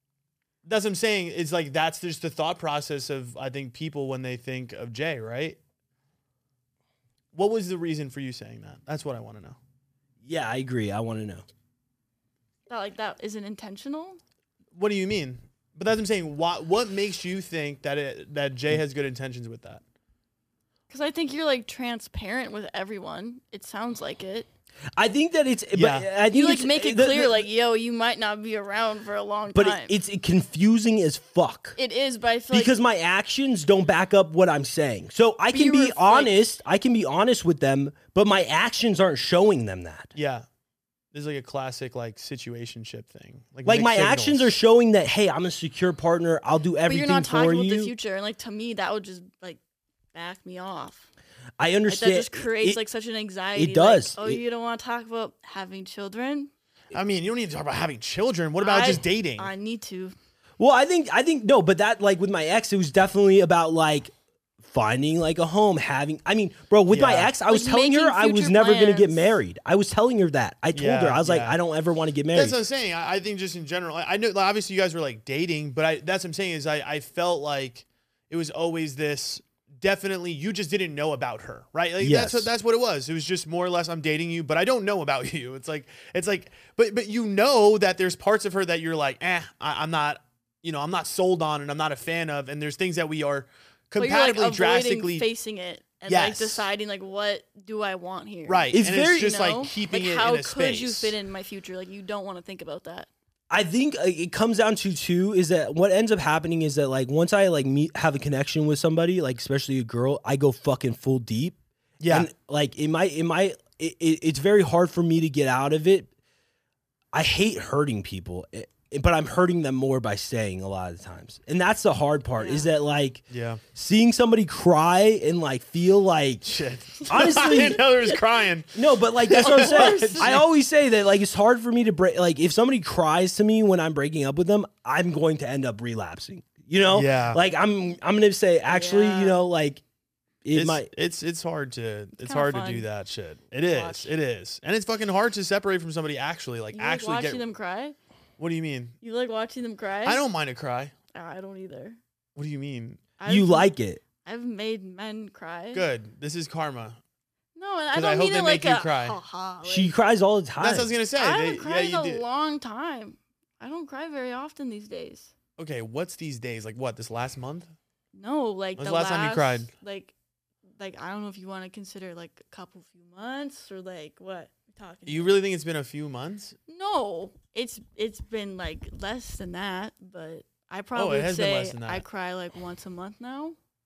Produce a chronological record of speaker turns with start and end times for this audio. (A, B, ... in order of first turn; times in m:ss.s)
0:00.6-0:05.6 A
0:07.3-0:09.6 A
0:10.2-0:11.4 B
0:12.7-0:14.2 C
0:14.8-0:19.8 A
0:20.9-0:24.5 C
0:25.0-0:27.5 B
0:25.7-0:26.1 A
0:26.3-0:29.9 C
0:29.5-0:31.8 B
0:31.8-0:32.8 C
0:32.5-0:40.1 B
0:35.5-0:36.4 C
0:40.2-0:40.4 A
0:41.1-0:44.6 A
0:43.6-0:47.9 B
0:46.9-0:49.6 C
0:50.1-0:51.1 C
0:51.6-0:52.8 B
0:51.9-0:56.5 C
0:53.6-0:54.4 B
0:56.9-0:59.5 A
0:58.6-1:00.1 C
1:00.6-1:12.6 B
1:06.9-1:07.3 A
1:07.5-1:09.4 C
1:10.7-1:11.6 A
1:12.3-1:35.3 A
1:22.0-1:22.5 B
1:34.0-1:43.1 C
1:36.1-1:36.7 A
1:38.5-1:41.2 A
1:38.7-1:39.4 B
1:43.5-1:51.6 B
1:52.0-1:52.3 A
1:52.1-1:56.1 B
1:57.1-2:06.5 B
2:02.4-2:02.7 C
2:03.3-2:03.6 A
2:06.4-2:10.4 A
2:07.1-2:07.8 B
2:08.7-2:19.8 B
2:09.4-2:10.4 C
2:16.9-2:17.4 A
2:18.7-2:19.4 C
2:20.4-2:20.9 B
2:20.5-2:27.4 A
2:22.2-2:22.9 C
2:23.7-2:24.1 C
2:26.7-2:28.0 C
2:28.4-2:29.0 A
2:29.0-2:30.2 C
2:30.0-2:31.0 A
2:31.1-2:32.0 C
2:32.4-2:33.0 A
2:33.2-2:33.7 C
2:33.3-2:34.0 B
2:34.2-2:35.9 C
2:35.7-2:37.0 A
2:37.6-2:39.9 C
2:37.9-2:39.2 A
2:39.6-2:40.9 B
2:40.6-2:42.2 A
2:41.2-2:45.3 C
2:45.6-2:47.7 A
2:48.1-2:50.1 C
2:48.8-2:49.7 A
2:50.8-2:55.4 C
2:55.1-2:56.6 A
2:56.7-3:03.6 C
3:01.0-3:02.0 A